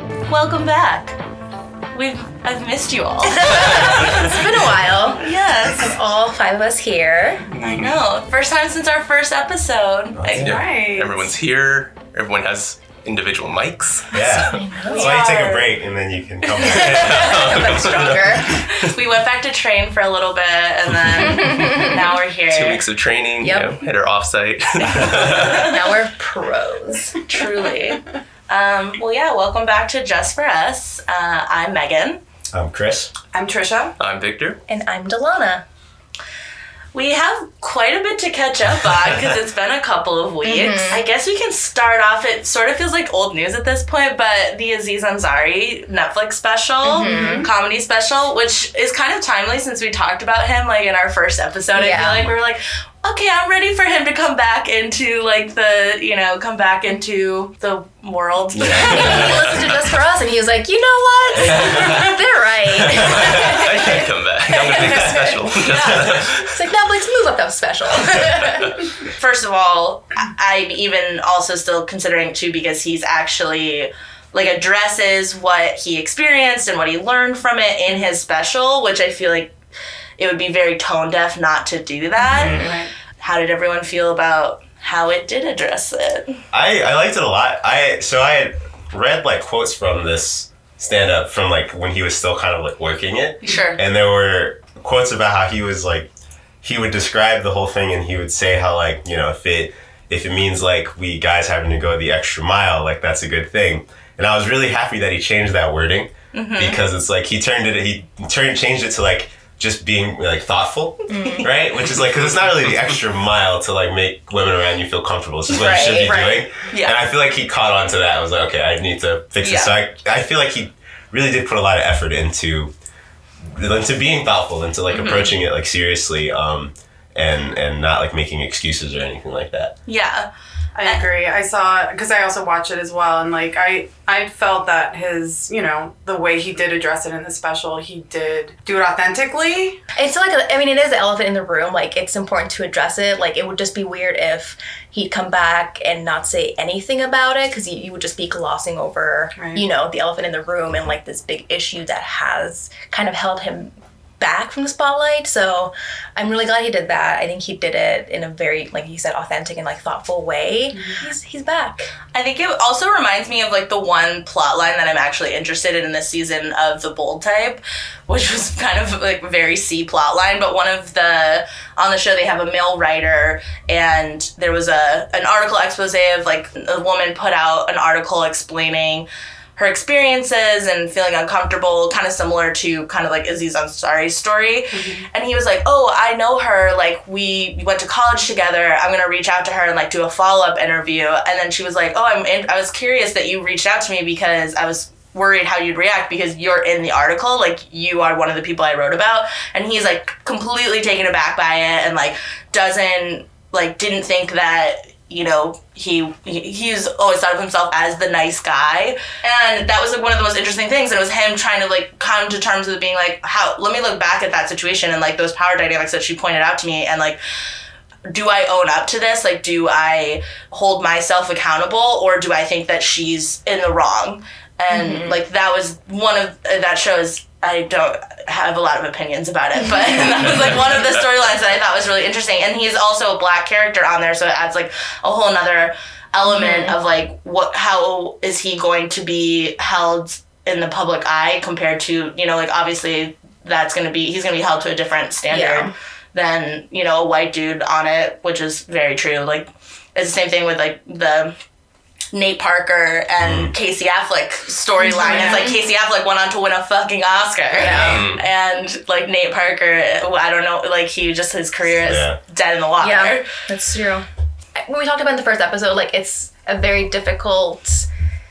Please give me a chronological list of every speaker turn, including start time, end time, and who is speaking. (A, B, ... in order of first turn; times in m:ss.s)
0:00.3-0:01.2 A
0:01.9-0:04.5 A
0:03.3-0:07.4 B
0:03.8-0:04.3 C
0:05.1-0:06.0 A
0:07.5-0:08.0 C
0:07.6-0:07.8 D
0:07.7-0:10.5 A
0:10.2-0:10.6 E
0:10.4-0:11.3 D
0:10.4-0:14.7 C
0:14.1-0:18.1 E
0:14.5-0:15.4 B
0:14.9-0:15.7 A
0:16.6-0:18.6 B
0:16.7-0:18.9 C
0:18.5-0:22.8 A
0:21.2-0:22.0 B
0:22.5-0:25.8 C
0:23.4-0:23.8 B
0:25.0-0:27.2 B
0:25.4-0:25.7 A
0:27.2-0:32.2 A
0:32.5-0:33.1 E
0:33.3-0:34.0 D
0:34.0-0:34.6 C
0:34.7-0:35.6 B
0:36.9-0:59.7 A
0:39.0-0:39.3 E
0:40.4-0:41.0 B
0:46.9-0:47.5 B
0:47.0-0:47.5 D
0:51.7-0:52.2 B
0:58.5-0:59.6 E
0:58.9-1:05.5 B
0:59.0-0:59.7 C
1:01.4-1:02.2 E
1:02.9-1:06.6 C
1:03.0-1:03.6 E
1:04.8-1:05.2 E
1:05.6-1:06.3 A
1:05.9-1:06.2 E
1:06.4-1:08.8 B
1:09.0-1:19.6 A
1:20.2-1:26.4 A
1:22.2-1:22.6 E
1:22.3-1:22.9 D
1:26.5-1:36.1 E
1:33.4-1:33.8 A
1:36.6-2:02.7 E
1:46.3-1:46.8 A
1:51.1-1:51.5 B
1:51.2-1:51.5 A
1:55.5-1:56.2 B
1:55.7-1:57.0 A
1:56.1-1:56.4 D
1:59.4-1:59.7 A
2:03.5-2:09.7 E
2:04.9-2:05.4 A
2:09.9-2:10.3 A
2:10.8-2:19.8 D
2:20.0-2:41.9 B
2:29.4-2:29.6 D
2:40.7-2:41.1 D
2:42.1-3:37.2 A
3:04.7-3:05.1 D
3:38.1-4:11.4 A
3:44.7-3:45.2 B
3:50.4-3:50.9 C
3:56.3-3:56.8 B
4:05.3-4:05.7 B
4:12.1-4:23.3 A
4:13.2-4:13.5 E
4:14.8-4:15.6 B
4:14.9-4:15.5 D
4:17.6-4:18.1 E
4:17.6-4:18.1 B
4:17.9-4:18.2 C
4:21.8-4:22.2 E
4:22.8-4:24.1 B
4:24.6-4:27.9 B